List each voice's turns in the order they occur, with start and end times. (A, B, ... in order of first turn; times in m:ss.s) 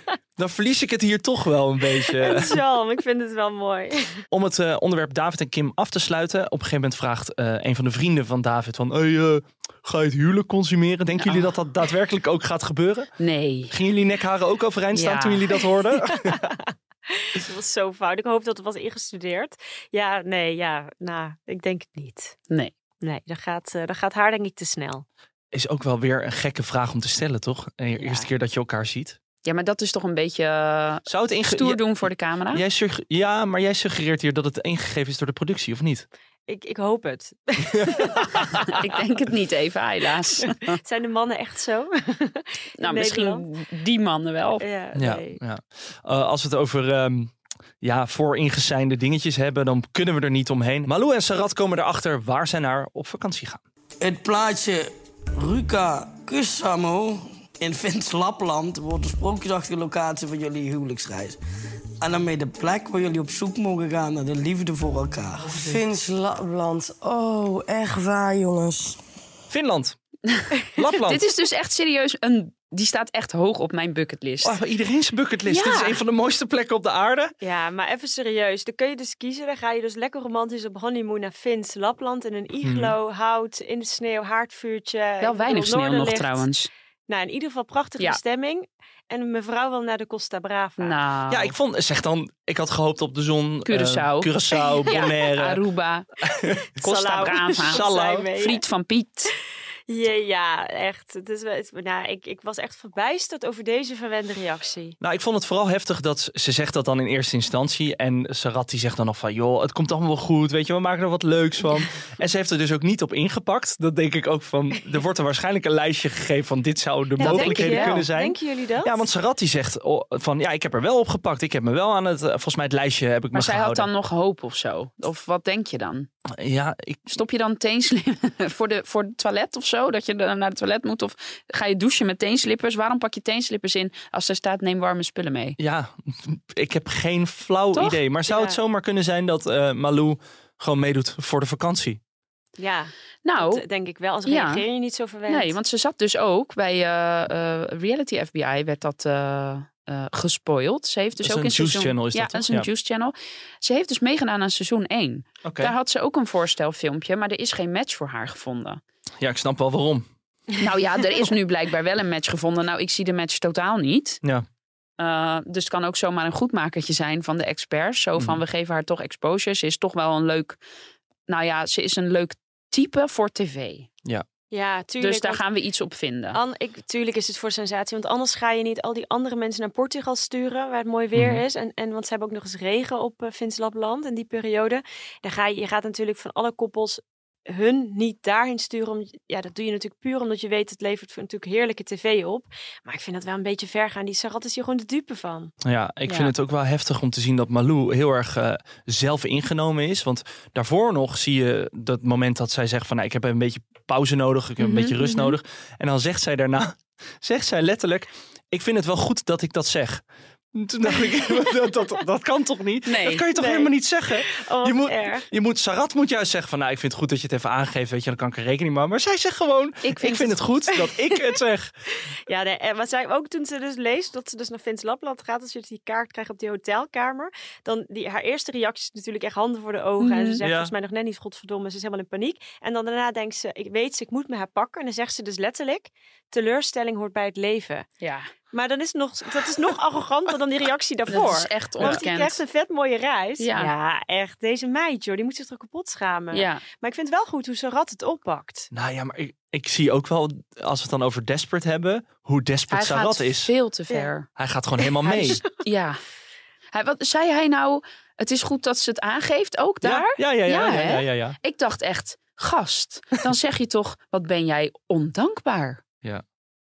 0:00.4-0:02.6 A
0:02.1-0:04.2 B
0:04.3-0:13.1 A
0:11.2-0:11.5 C
0:13.2-0:13.7 C
0:13.7-0:16.5 A
0:14.9-0:15.5 C
0:16.2-0:22.4 B
0:23.0-0:25.0 B
0:25.5-0:29.2 A
0:29.4-0:32.6 C
0:31.1-0:31.9 A
0:32.5-0:36.1 A
0:36.5-0:38.7 B
0:37.7-0:38.4 A
0:38.6-0:40.8 C
0:40.5-0:43.5 B
0:42.8-0:44.6 C
0:44.6-0:45.4 B
0:45.0-0:53.6 A
0:54.0-1:01.4 D
1:02.0-1:05.6 D
1:05.5-1:08.8 E
1:09.5-1:10.0 A
1:10.8-1:11.2 A
1:11.0-1:14.6 C
1:14.4-1:17.3 A
1:15.5-1:15.9 B
1:17.4-1:26.5 B
1:22.6-1:23.0 A
1:25.2-1:26.7 C
1:27.1-1:31.0 B
1:30.8-1:31.5 C
1:31.3-1:35.6 A
1:33.7-1:34.3 C
1:34.8-1:35.1 B
1:34.9-1:36.1 C
1:36.2-1:36.7 A
1:36.8-1:38.6 B
1:36.8-1:37.8 C
1:37.3-1:38.3 A
1:38.4-1:39.3 C
1:39.9-1:45.0 B
1:45.0-2:03.9 A
1:57.2-1:58.0 C
1:57.2-1:59.0 B
2:03.3-2:06.1 C
2:06.4-2:07.1 A
2:07.1-2:15.6 C
2:15.6-2:22.0 A
2:17.8-2:18.0 C
2:18.3-2:18.6 B
2:22.6-2:25.6 B
2:23.2-2:23.6 C
2:24.3-2:24.6 C
2:25.3-2:38.8 C
2:31.2-2:32.7 A
2:35.4-2:35.7 A
2:39.2-2:40.1 A
2:40.6-2:44.2 C
2:45.0-2:50.6 C
2:48.2-2:48.4 A
2:51.3-2:53.9 C
2:54.5-2:55.4 B
2:55.0-2:56.4 C
2:56.3-3:15.5 B
3:01.2-3:01.4 A
3:15.6-3:41.7 A
3:16.1-3:16.3 C
3:24.6-3:25.3 C
3:32.9-3:33.2 C
3:33.4-3:35.3 B
3:39.8-3:40.4 C
3:42.3-3:57.9 B
3:50.0-3:50.4 C
3:50.4-3:50.7 A
3:58.0-3:58.3 C
3:58.5-4:08.7 B
4:01.1-4:02.4 C
4:03.4-4:03.7 C
4:06.3-4:06.6 C
4:08.7-4:13.5 A
4:12.7-4:14.3 C
4:14.4-4:15.4 A
4:15.0-4:15.6 B
4:15.1-4:16.0 C
4:16.7-4:25.8 C
4:19.8-4:21.4 A